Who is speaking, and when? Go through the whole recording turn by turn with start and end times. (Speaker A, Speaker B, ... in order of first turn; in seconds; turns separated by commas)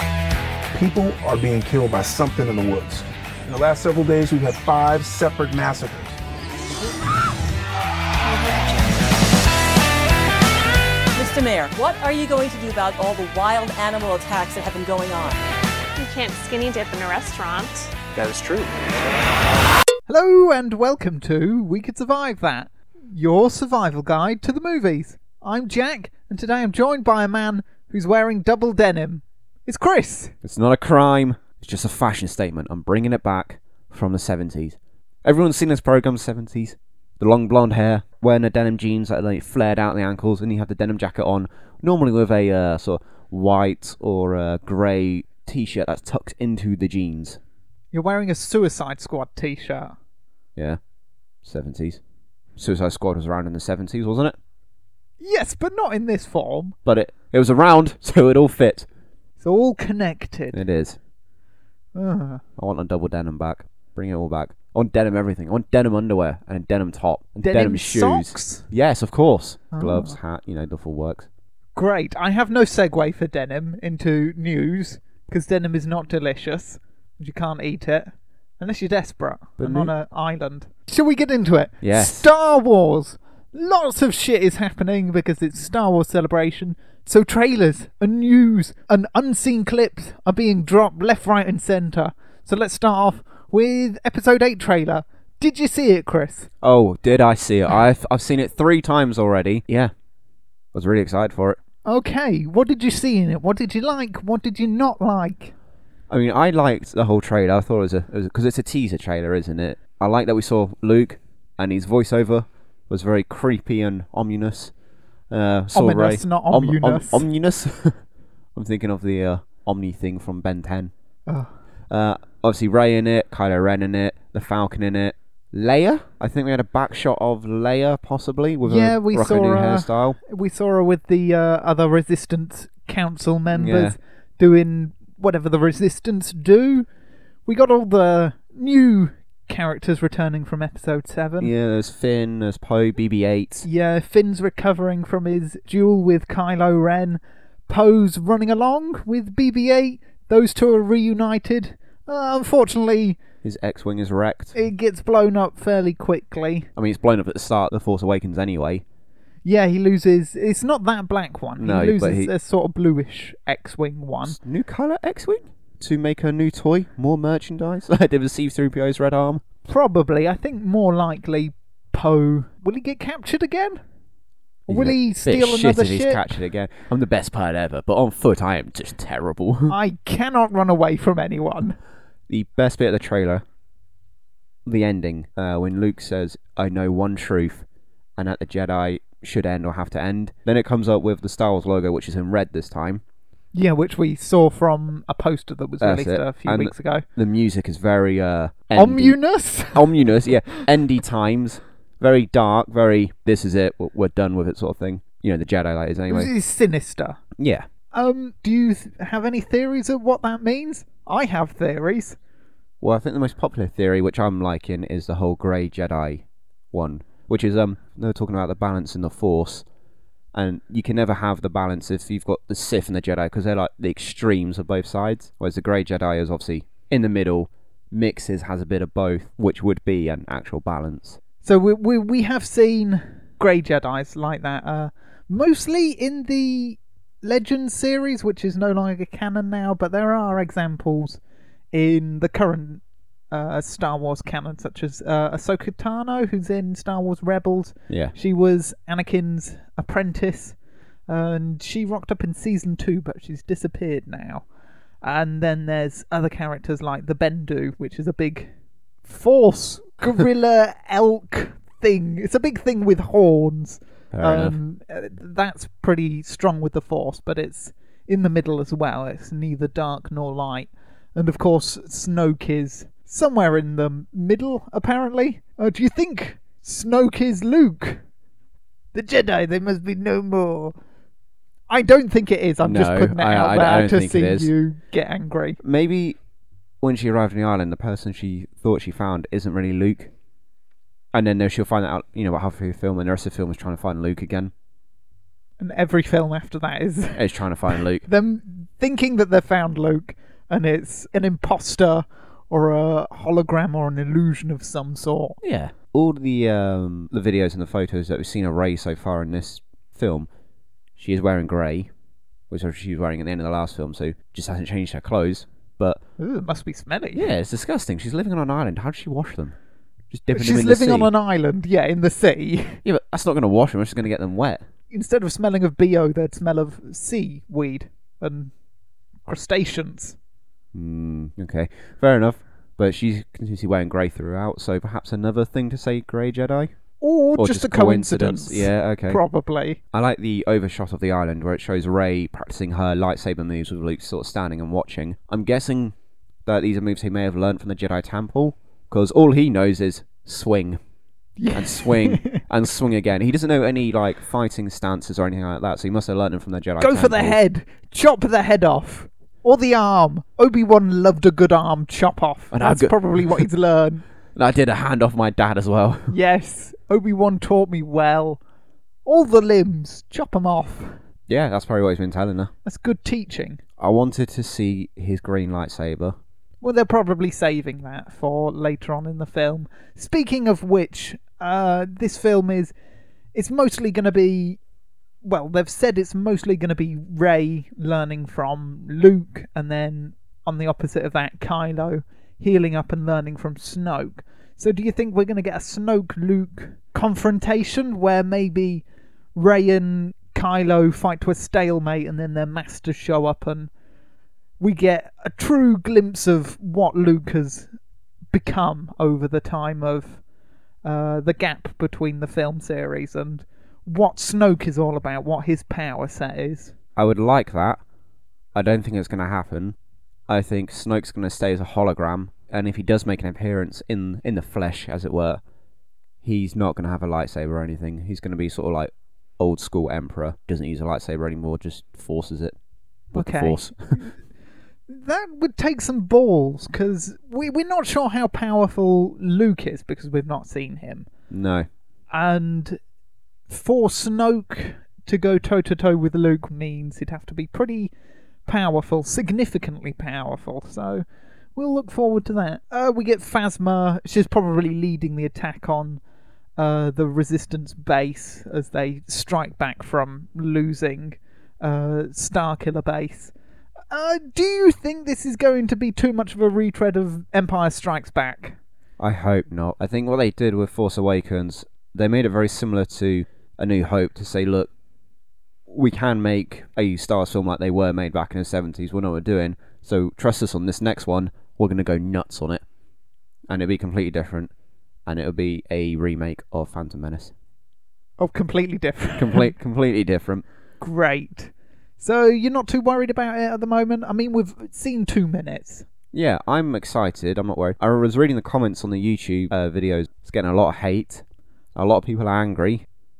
Speaker A: 0.7-6.2, Speaker B: 11.1-15.4, Speaker C: 15.9-17.9, Speaker A: 18.1-18.8, Speaker D: 20.1-30.3, Speaker E: 30.4-47.4, Speaker D: 47.9-49.9, Speaker E: 51.4-52.0, Speaker E: 52.5-54.4, Speaker D: 55.2-56.8, Speaker E: 56.9-58.9, Speaker D: 59.4-60.6, Speaker E: 60.5-61.0, Speaker D: 61.9-62.4, Speaker E: 62.6-71.3, Speaker D: 67.4-68.7, Speaker D: 69.7-70.2, Speaker D: 71.7-96.5, Speaker E: 79.6-79.9, Speaker E: 81.8-82.2, Speaker E: 96.6-99.9, Speaker E: 100.7-101.6, Speaker D: 101.8-105.5, Speaker E: 106.1-114.7, Speaker E: 115.3-118.0, Speaker D: 115.7-117.2, Speaker E: 118.5-120.9, Speaker D: 121.3-121.5, Speaker E: 121.9-130.2, Speaker D: 128.6-136.9, Speaker E: 133.5-133.9, Speaker D: 137.4-141.5, Speaker E: 141.4-143.7, Speaker D: 143.6-153.2, Speaker E: 153.4-154.6, Speaker D: 154.5-156.7, Speaker E: 156.8-158.8, Speaker D: 159.4-164.4, Speaker E: 161.6-162.3, Speaker E: 164.2-169.4, Speaker D: 169.7-173.8, Speaker D: 174.7-176.3, Speaker E: 174.7-179.8, Speaker D: 179.7-181.8, Speaker E: 182.3-183.4, Speaker E: 184.6-187.6, Speaker E: 188.2-193.0, Speaker D: 193.5-197.0, Speaker E: 195.8-199.2, Speaker D: 198.7-200.1, Speaker E: 199.7-206.3, Speaker D: 206.1-207.2, Speaker E: 207.4-207.7, Speaker D: 207.9-212.2, Speaker E: 212.8-219.6, Speaker E: 220.3-231.2, Speaker D: 231.4-241.2, Speaker D: 241.7-254.4, Speaker E: 247.9-248.1, Speaker D: 255.0-258.5, Speaker D: 259.0-278.0, Speaker E: 264.1-264.6, Speaker D: 278.9-280.7, Speaker D: 281.7-285.6, Speaker E: 282.6-284.5, Speaker E: 285.6-286.2, Speaker E: 286.8-290.1, Speaker E: 291.1-294.5, Speaker D: 295.6-305.4, Speaker E: 297.1-298.0, Speaker E: 305.4-310.3, Speaker E: 310.9-311.9, Speaker E: 312.5-316.0, Speaker D: 316.2-317.3, Speaker E: 317.1-319.5, Speaker E: 320.1-321.1, Speaker D: 320.3-322.8, Speaker E: 322.8-324.6, Speaker D: 324.9-328.5, Speaker D: 329.3-330.2, Speaker E: 330.7-336.7, Speaker D: 337.0-339.8, Speaker E: 337.3-339.2, Speaker E: 339.9-345.9, Speaker E: 346.4-350.8, Speaker D: 351.4-352.4, Speaker E: 351.5-357.4, Speaker D: 356.8-364.0, Speaker E: 362.5-363.4, Speaker E: 364.3-366.1, Speaker D: 366.1-368.4, Speaker D: 369.0-371.0, Speaker E: 371.3-372.5, Speaker D: 372.6-373.6, Speaker E: 373.8-376.1, Speaker D: 376.6-382.7, Speaker D: 383.3-384.6, Speaker D: 385.2-398.8, Speaker D: 399.3-403.7, Speaker D: 404.6-407.7, Speaker D: 408.3-410.2, Speaker D: 410.8-416.7, Speaker E: 416.9-417.8, Speaker E: 418.5-419.8, Speaker E: 420.3-425.4, Speaker E: 426.2-432.5, Speaker D: 433.1-434.1, Speaker E: 433.1-433.9, Speaker D: 434.9-441.1, Speaker E: 441.3-441.7, Speaker D: 442.1-442.8, Speaker D: 443.5-447.9, Speaker D: 448.4-451.0, Speaker D: 451.6-456.0, Speaker D: 456.6-463.3, Speaker D: 463.9-468.6, Speaker E: 469.0-474.7, Speaker E: 475.7-482.6, Speaker E: 483.5-484.5, Speaker E: 485.1-487.3, Speaker D: 488.2-489.5, Speaker E: 489.2-490.4, Speaker D: 490.8-495.9, Speaker E: 496.1-501.2, Speaker E: 501.8-502.8